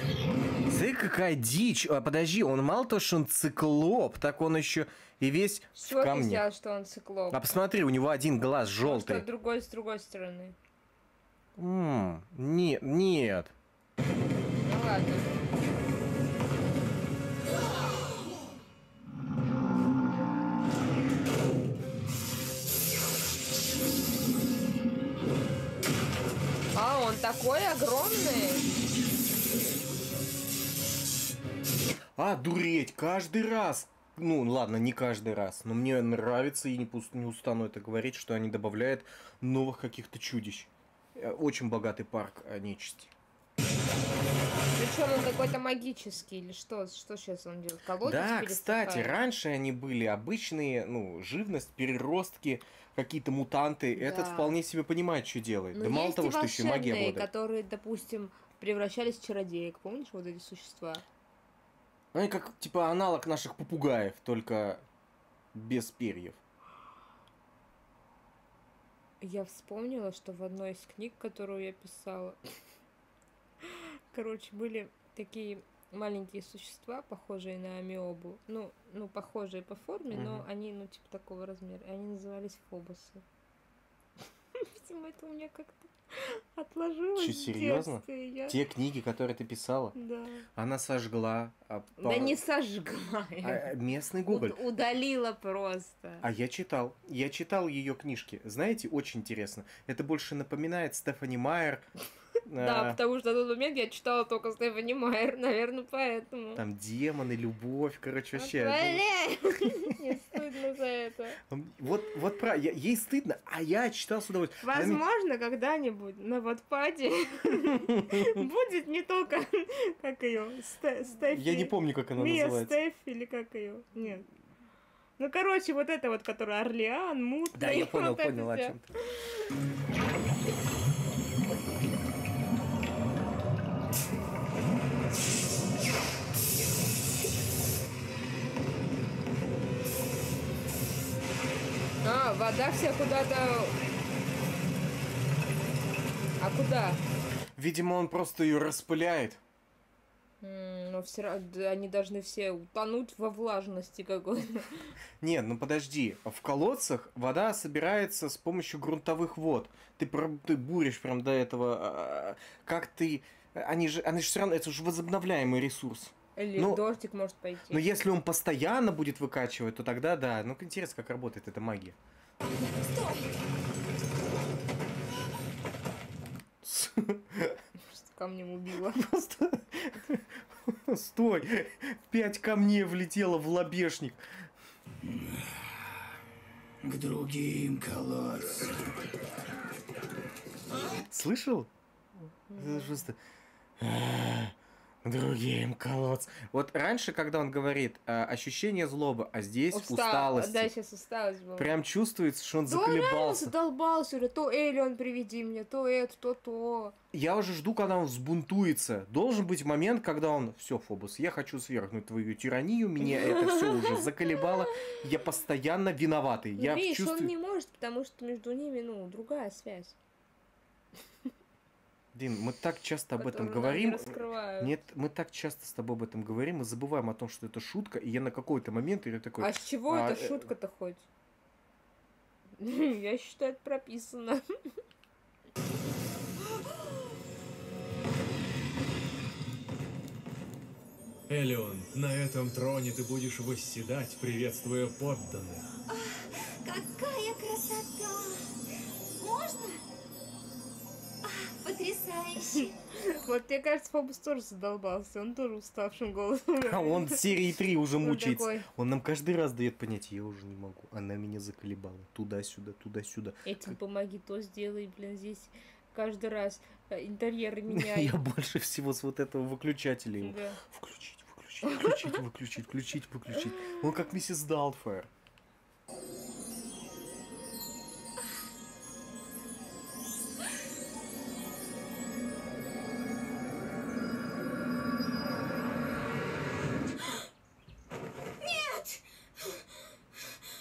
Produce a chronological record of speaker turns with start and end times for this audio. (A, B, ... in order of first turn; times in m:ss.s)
0:00.7-0:06.4 A
0:05.8-0:07.4 B
0:07.3-0:09.2 A
0:08.8-0:10.5 B
0:11.6-0:13.5 A
0:14.6-0:15.4 B
0:26.7-0:28.6 B
0:32.2-0:43.1 A
0:44.8-0:49.2 B
0:48.0-0:57.3 A
0:53.9-0:54.5 B
0:55.7-1:01.0 B
1:02.1-1:04.8 A
1:05.5-1:06.4 A
1:09.2-1:12.4 B
1:13.6-1:23.2 B
1:20.1-1:20.4 A
1:24.6-1:28.6 B
1:27.2-1:29.9 A
1:30.0-1:30.4 B
1:30.6-1:32.4 A
1:32.0-1:33.7 B
1:33.4-1:34.6 A
1:34.3-1:36.2 B
1:36.2-1:41.8 A
1:42.5-1:43.0 A
1:42.6-1:46.6 B
1:46.6-1:49.0 A
1:48.4-1:51.4 B
1:51.5-1:55.0 A
1:54.6-2:04.2 B
1:57.6-1:58.4 A
2:01.3-2:02.7 A
2:05.2-2:08.8 B
2:07.5-2:08.8 A
2:22.0-2:23.8 B
2:26.4-2:27.0 B
2:27.6-2:29.4 A
2:30.4-2:34.9 B
2:35.2-2:46.8 A
2:46.4-2:47.8 B
2:47.7-2:52.0 A
2:52.9-2:53.2 C
2:56.6-2:57.6 A
2:57.9-2:59.0 B
2:59.0-3:04.2 A
3:05.0-3:05.4 D
3:06.8-3:08.7 D
3:11.1-3:11.7 A
3:12.5-3:13.0 B
3:12.5-3:13.2 A
3:13.8-3:20.7 A
3:19.7-3:21.7 B
3:21.6-3:23.5 A
3:22.7-3:26.9 B
3:27.1-3:37.3 A
3:33.0-3:34.4 B
3:36.6-3:39.9 B
3:42.1-3:50.5 A
3:43.2-3:44.7 B
3:49.4-3:51.0 B
3:52.6-3:54.4 B
4:01.3-4:05.6 E
4:06.6-4:08.3 C
4:09.2-4:09.8 C
4:11.2-4:12.7 C
4:12.5-4:17.5 B
4:16.6-4:23.8 A
4:18.0-4:18.7 B
4:23.4-4:28.2 B
4:27.7-4:35.1 A
4:30.2-4:30.6 B
4:31.7-4:32.0 B
4:48.4-4:49.0 C